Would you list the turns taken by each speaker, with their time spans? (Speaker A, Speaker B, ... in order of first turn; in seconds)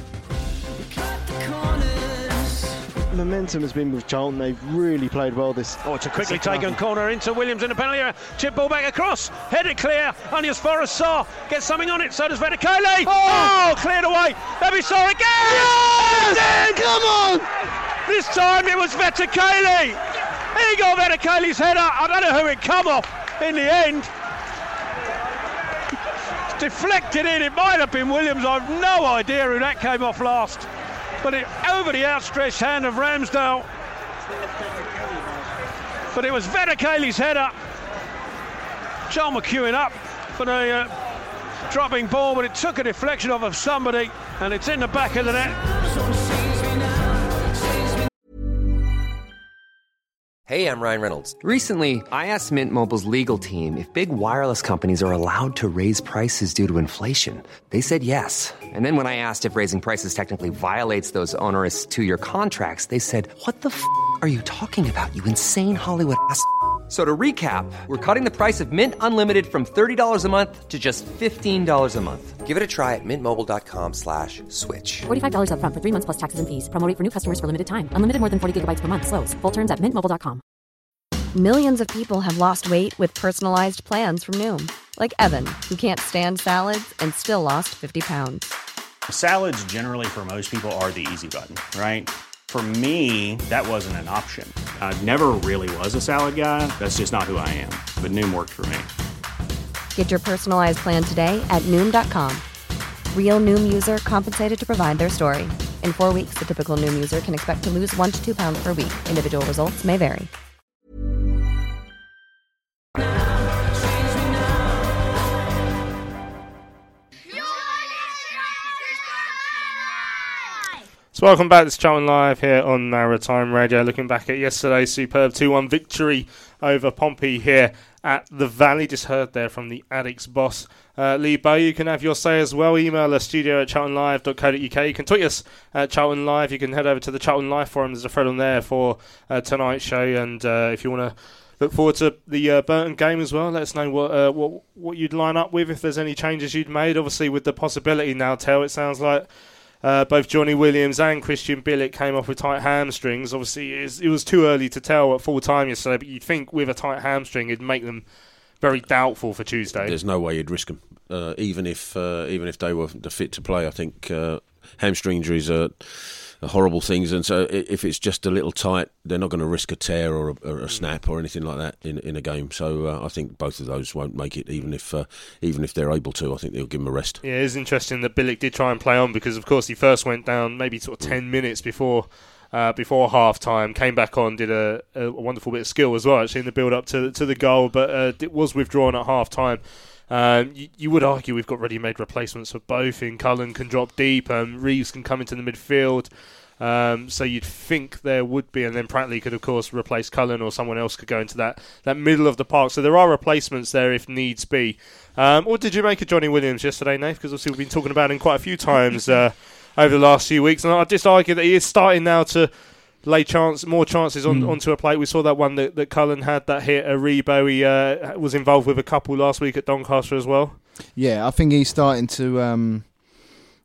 Speaker A: 3.1-6.8, 13.0-13.6, 15.6-17.4
Speaker B: 5.8-17.4, 18.1-20.0, 20.5-24.1, 26.6-30.7, 31.2-33.7, 36.1-37.5, 39.1-40.9, 41.7-45.8
Speaker C: 50.5-75.0
Speaker D: 75.0-80.4
Speaker E: 81.3-88.5, 100.0-102.4, 103.1-110.3
Speaker F: 89.1-98.9
Speaker G: 121.1-149.3, 149.8-158.0, 158.6-160.0, 177.2-212.5, 213.0-220.6
Speaker H: 159.8-177.2
Speaker I: 214.3-214.6, 220.9-223.3